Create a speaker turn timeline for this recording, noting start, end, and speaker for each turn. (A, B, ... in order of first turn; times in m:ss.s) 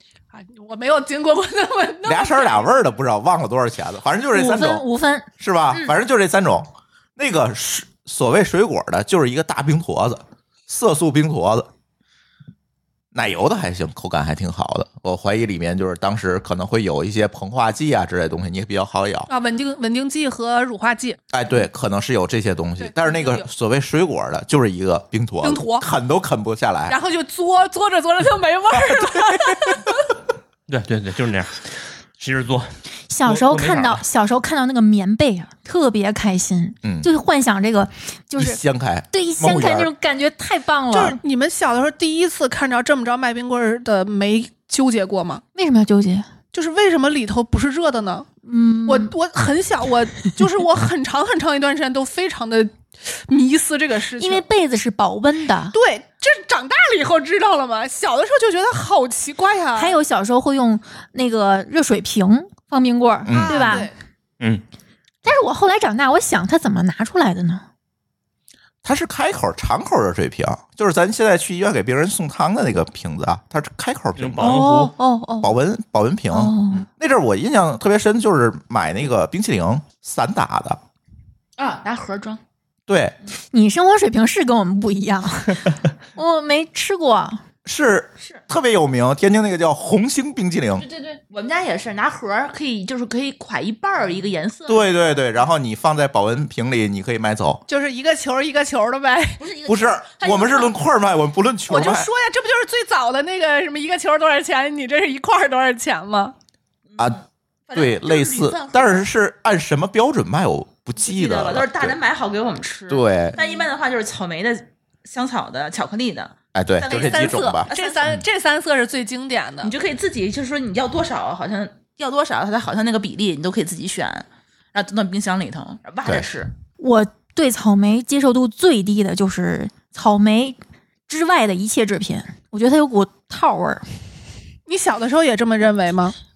0:00.3-0:02.7 A
0:02.0-0:04.8 B
0:04.3-0:05.9 C
0:05.4-0:11.7 B
0:13.1-0:19.3 B
0:19.3-0:21.2 A
0:21.3-0:27.0 B
0:22.8-0:23.5 A
0:25.4-0:25.9 A
0:26.9-0:29.9 A
0:28.9-0:29.8 B
0:30.7-0:32.7 D
0:33.1-0:38.6 C
0:33.2-0:34.0 D
0:36.8-0:37.1 B
0:38.3-0:39.9 B
0:39.1-0:41.2 C
0:40.9-0:45.4 A
0:45.5-0:46.3 C
0:46.5-0:48.3 A
0:48.4-0:49.1 C
0:48.8-0:54.4 A
0:54.2-0:55.8 C
0:55.7-1:00.0 A
0:59.7-1:03.9 C
1:03.2-1:03.9 B
1:03.3-1:03.9 A
1:05.2-1:07.6 C
1:08.8-1:14.7 B
1:14.2-1:14.9 D
1:14.4-1:15.5 C
1:15.4-1:20.8 B
1:16.3-1:16.8 C
1:21.6-1:22.4 E
1:22.9-1:23.1 B
1:23.5-1:27.4 C
1:27.6-1:30.8 B
1:30.8-1:34.9 E
1:34.7-1:37.6 B
1:37.7-1:39.4 A
1:39.4-1:40.7 E
1:39.6-1:42.1 B
1:41.7-1:46.3 A
1:46.9-1:49.1 E
1:47.7-1:52.0 B
1:51.0-1:58.2 E
1:52.9-1:53.4 B
1:56.5-1:57.7 B
1:56.8-1:59.7 A
1:59.6-2:06.5 E
2:06.8-2:13.8 C
2:14.7-2:16.1 A